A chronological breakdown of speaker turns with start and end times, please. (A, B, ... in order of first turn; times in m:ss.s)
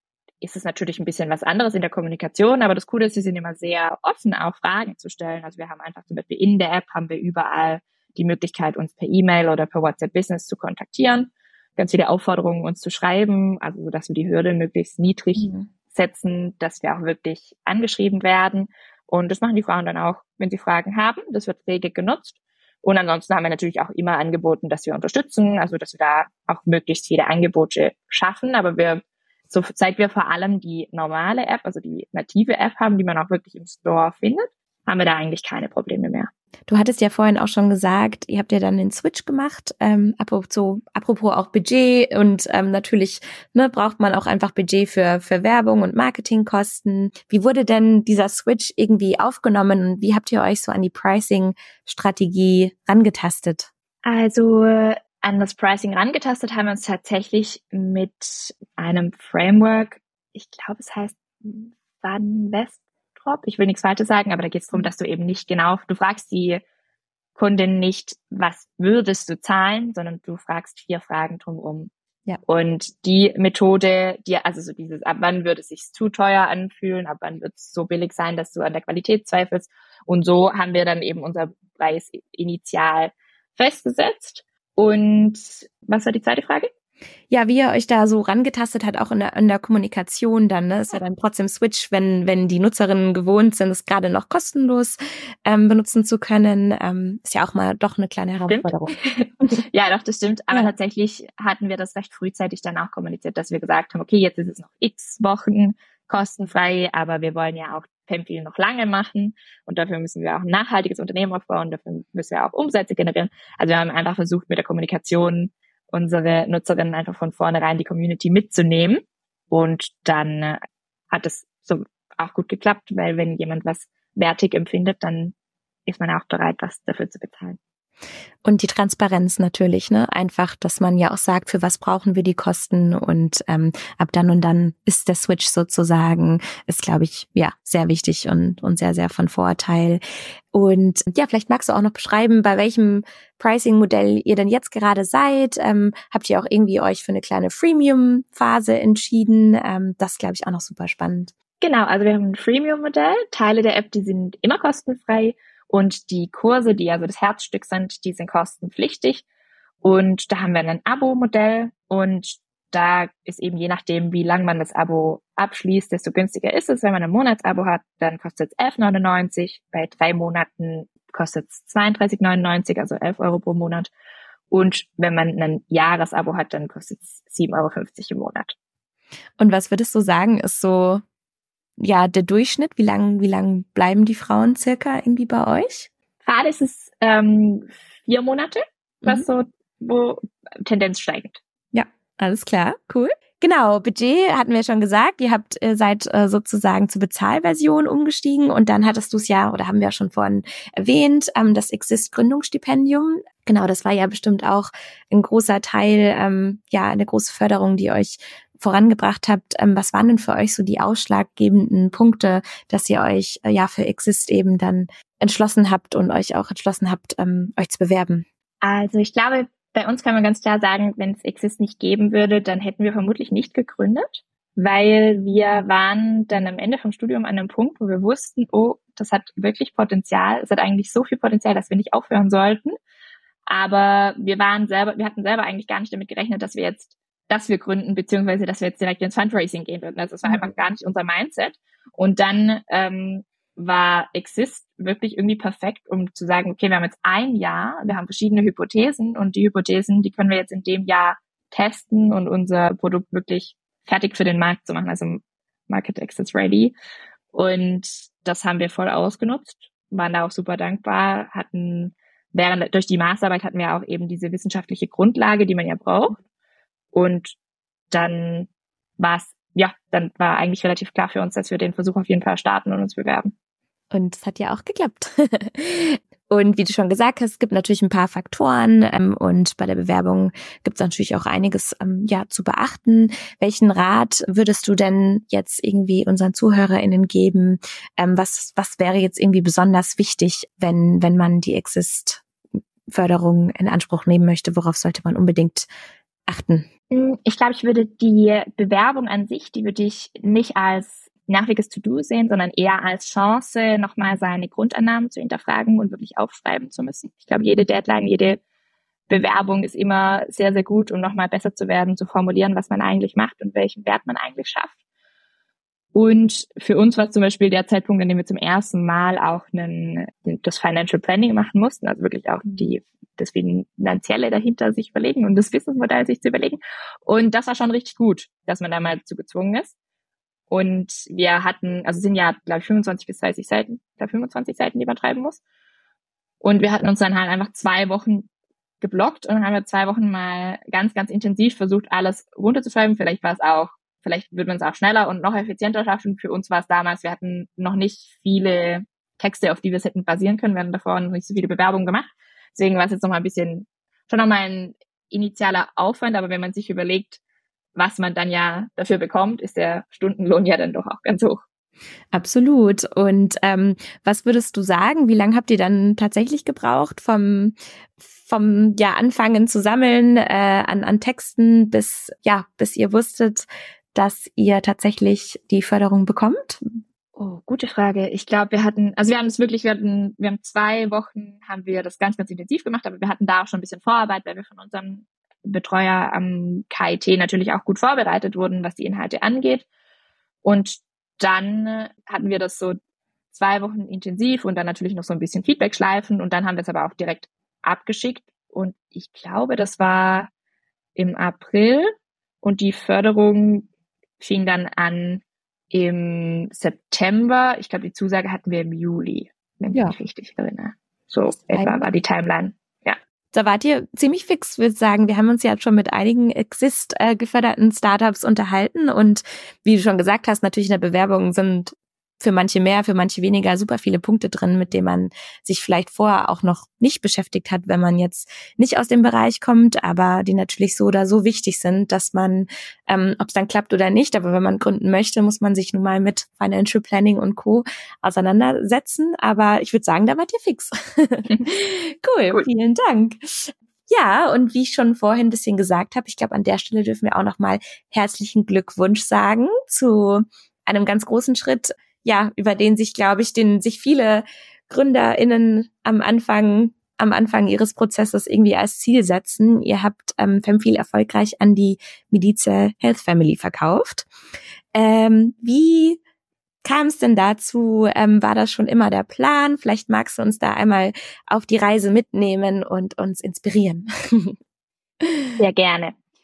0:00.4-0:36.3 A
0:15.4-0:15.7 B
0:36.7-0:53.7 B
0:54.0-1:06.6 A
1:07.4-1:11.9 A
1:12.5-1:26.7 A
1:27.3-1:39.0 B
1:38.5-2:05.4 A
2:05.9-2:07.6 A
2:08.4-2:20.0 B
2:20.5-2:31.3 B
2:31.6-2:39.2 A
2:39.8-2:53.9 A
2:54.5-2:58.5 A
2:59.4-3:01.0 B
3:01.8-3:05.9 B
3:06.2-3:11.4 A
3:11.7-3:38.2 B
3:38.6-3:52.8 A
3:53.5-4:16.8 A
4:00.2-4:00.5 B
4:17.3-4:26.2 A
4:26.9-4:27.4 A
4:27.9-4:33.3 A
4:33.9-4:52.2 B
4:52.9-4:55.7 B
4:56.3-4:56.7 B
4:56.9-5:08.4 A
5:09.1-5:14.7 A
5:15.9-5:29.8 A
5:30.5-5:35.4 A
5:36.4-5:38.3 A
5:38.8-5:57.2 A
5:57.8-6:01.4 A
6:02.1-6:16.8 B
6:17.2-6:29.7 A
6:30.4-6:32.8 A
6:33.3-6:40.3 A
6:41.0-6:41.9 A
6:42.4-6:43.7 A
6:44.2-6:53.0 A
6:51.5-6:51.8 B
6:53.3-7:44.1 B
7:44.7-7:46.0 B
7:46.6-7:54.4 B
7:55.0-7:55.3 B
7:55.4-7:56.0 A